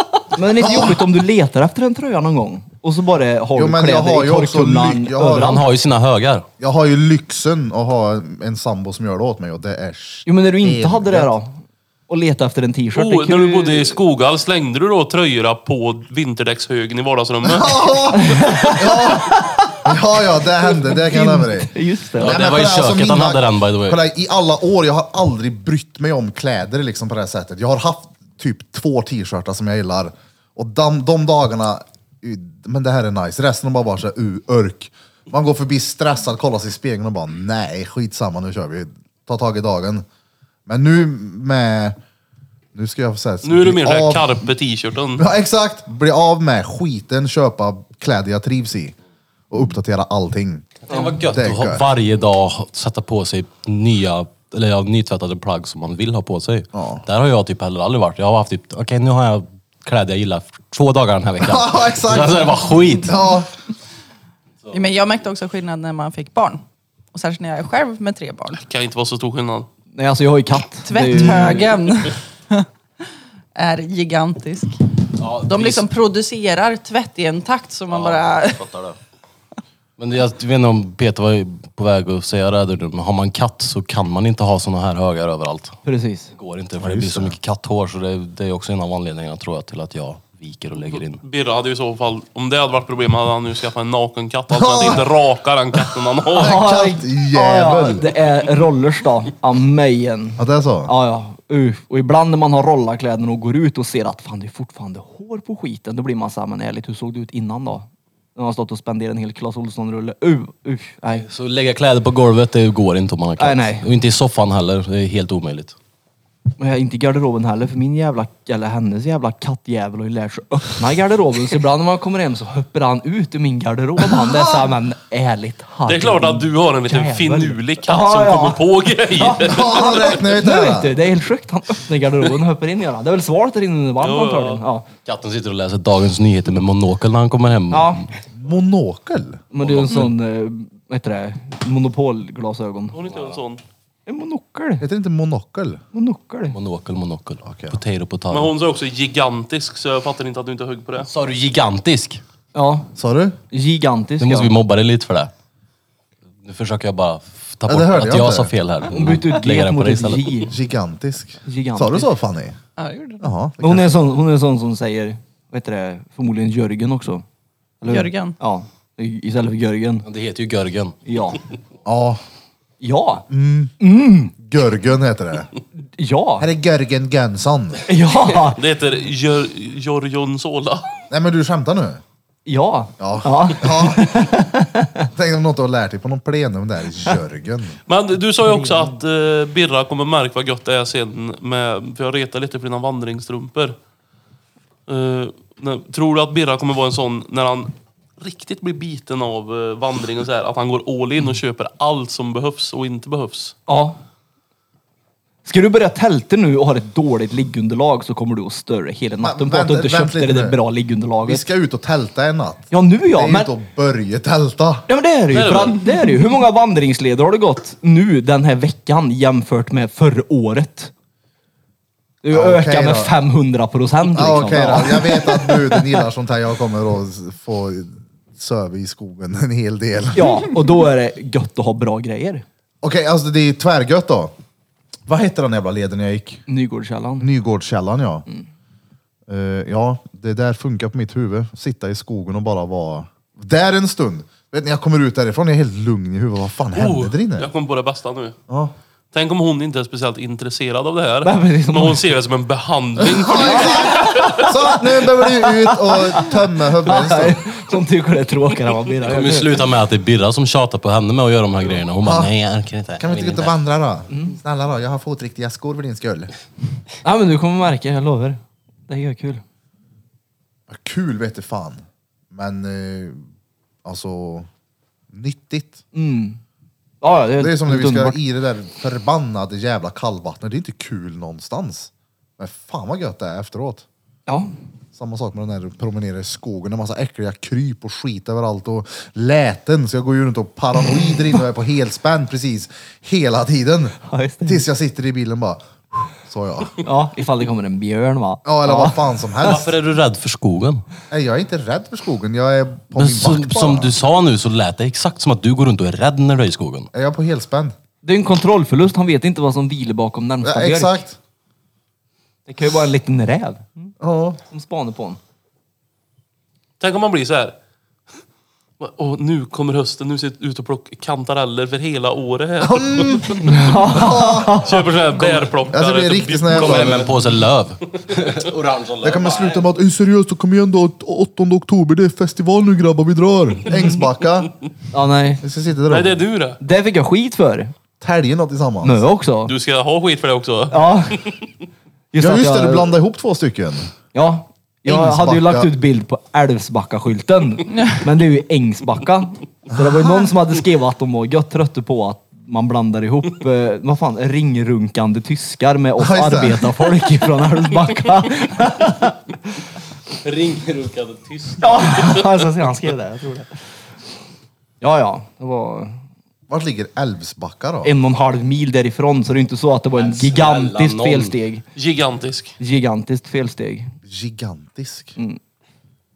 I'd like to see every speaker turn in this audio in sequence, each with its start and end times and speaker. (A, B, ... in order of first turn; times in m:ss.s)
0:00.3-0:05.6 A
0:00.6-0:01.1 B
0:03.6-0:05.6 B
0:05.3-0:06.5 C
0:06.6-0:11.3 B
0:10.3-0:14.0 A
0:12.9-0:18.0 D
0:17.4-0:40.0 B
0:18.1-0:19.8 A
0:20.6-0:22.4 A
0:22.2-0:24.0 C
0:40.7-0:42.0 B
0:42.7-0:44.4 B
0:43.4-0:45.2 D
0:45.2-0:49.0 B
0:49.5-0:50.7 B
0:50.9-1:03.1 C
0:51.3-0:51.8 B
0:56.7-0:57.0 B
1:01.4-1:03.5 B
1:04.7-1:06.6 E
1:07.1-1:08.6 E
1:08.6-1:09.7 D
1:09.9-1:11.7 A
1:10.9-1:12.7 E
1:11.2-1:11.4 B
1:13.6-1:14.8 E
1:15.2-1:15.9 C
1:15.4-1:18.6 E
1:17.9-1:19.0 C
1:20.0-1:25.8 C
1:25.8-1:26.3 A
1:26.4-1:31.2 C
1:26.8-1:27.4 B
1:31.2-1:36.6 D
1:34.6-1:35.0 B
1:36.3-1:38.1 B
1:36.4-1:51.3 A
1:40.4-1:40.9 B
1:51.2-1:55.8 C
1:53.4-1:53.9 A
1:56.6-2:14.9 A
2:05.9-2:10.2 D
2:09.4-2:11.0 B
2:14.0-2:14.6 D
2:15.0-2:18.1 C
2:17.7-2:18.1 A
2:18.3-2:19.5 B
2:19.5-2:23.0 A
2:19.6-2:20.1 C
2:22.9-2:23.6 D
2:23.1-2:23.4 C
2:24.1-2:24.8 A
2:24.8-2:25.8 B
2:25.9-2:26.6 A
2:26.5-2:28.5 C
2:27.4-2:27.8 B
2:28.3-2:31.1 D
2:31.0-2:32.2 C
2:32.5-2:32.9 A
2:33.0-2:33.4 B
2:33.5-2:34.6 A
2:34.2-2:35.3 C
2:36.4-2:40.5 C
2:37.7-2:38.5 B
2:38.9-2:40.6 A
2:40.5-2:42.6 B
2:41.4-2:42.1 A
2:42.8-2:43.3 E
2:43.2-2:44.0 B
2:43.6-2:47.2 A
2:47.8-2:50.0 A
2:47.8-2:48.4 E
2:50.0-2:51.0 C
2:51.1-2:51.4 A
2:51.8-2:52.2 B
2:52.8-2:53.3 A
2:53.3-2:53.8 B
2:53.8-2:54.3 A
2:54.4-2:55.5 B
2:56.0-2:56.5 A
2:56.4-2:57.8 B
2:57.9-2:58.6 A
2:58.6-3:00.9 D
3:01.1-3:02.0 B
3:02.5-3:05.1 A
3:03.0-3:04.2 B
3:05.1-3:07.8 B
3:07.9-3:13.8 D
3:08.4-3:08.9 A
3:14.9-3:23.6 D
3:23.7-3:24.0 A
3:25.4-3:31.4 A
3:29.2-3:30.6 B
3:31.2-3:34.9 B
3:32.7-3:33.5 A
3:34.9-3:40.9 A
3:35.3-3:35.8 D
3:42.2-3:45.9 A
3:42.3-3:43.1 B
3:44.1-3:50.6 B
3:50.2-3:52.4 A
3:52.8-3:54.3 B
3:55.1-3:56.4 B
3:56.5-3:57.3 A
3:57.2-3:58.3 B
3:59.3-4:07.5 B
4:06.8-4:08.4 D
4:09.1-4:14.5 D
4:11.2-4:12.0 A
4:13.0-4:17.4 B
4:13.3-4:19.7 A
4:19.0-4:23.6 C
4:22.0-4:22.3 B
4:23.0-4:26.3 B
4:24.1-4:24.4 A
4:27.0-4:29.4 A
4:30.7-4:33.2 B
4:33.8-4:34.5 B
4:35.1-4:35.8 B
4:35.9-4:36.4 A
4:37.0-4:38.2 A
4:37.4-4:43.8 B
4:44.9-4:56.8 B
4:54.0-4:54.6 A
4:56.8-4:59.0 A
4:58.4-4:59.7 B
4:59.4-5:00.8 C
5:01.1-5:03.9 B
5:03.0-5:06.9 C
5:06.9-5:07.7 B
5:08.0-5:11.0 A
5:10.4-5:11.2 B
5:12.5-5:13.9 A
5:14.0-5:14.4 B
5:14.4-5:15.2 A
5:16.8-5:17.5 D
5:18.8-5:23.4 D
5:22.6-5:24.6 B
5:23.4-5:24.9 A
5:24.6-5:27.2 D
5:25.7-5:27.1 B
5:26.5-5:29.7 C
5:29.0-5:34.5 B
5:34.9-5:35.4 A
5:35.4-5:36.2 B
5:35.9-5:36.6 D
5:36.6-5:37.7 A
5:38.0-5:39.0 B
5:38.8-5:39.5 A
5:39.4-5:41.3 D
5:40.7-5:41.3 A
5:42.1-5:42.9 A
5:42.2-5:43.9 B
5:44.1-5:59.4 A
5:44.8-5:45.7 B
5:47.7-5:48.0 E
5:56.0-5:56.7 B
6:00.2-6:02.3 C
6:01.6-6:03.6 A
6:04.8-6:06.0 A
6:06.5-6:07.9 B
6:07.8-6:11.6 A
6:10.0-6:11.4 C
6:11.8-6:12.6 D
6:12.6-6:13.9 A
6:14.1-6:15.2 B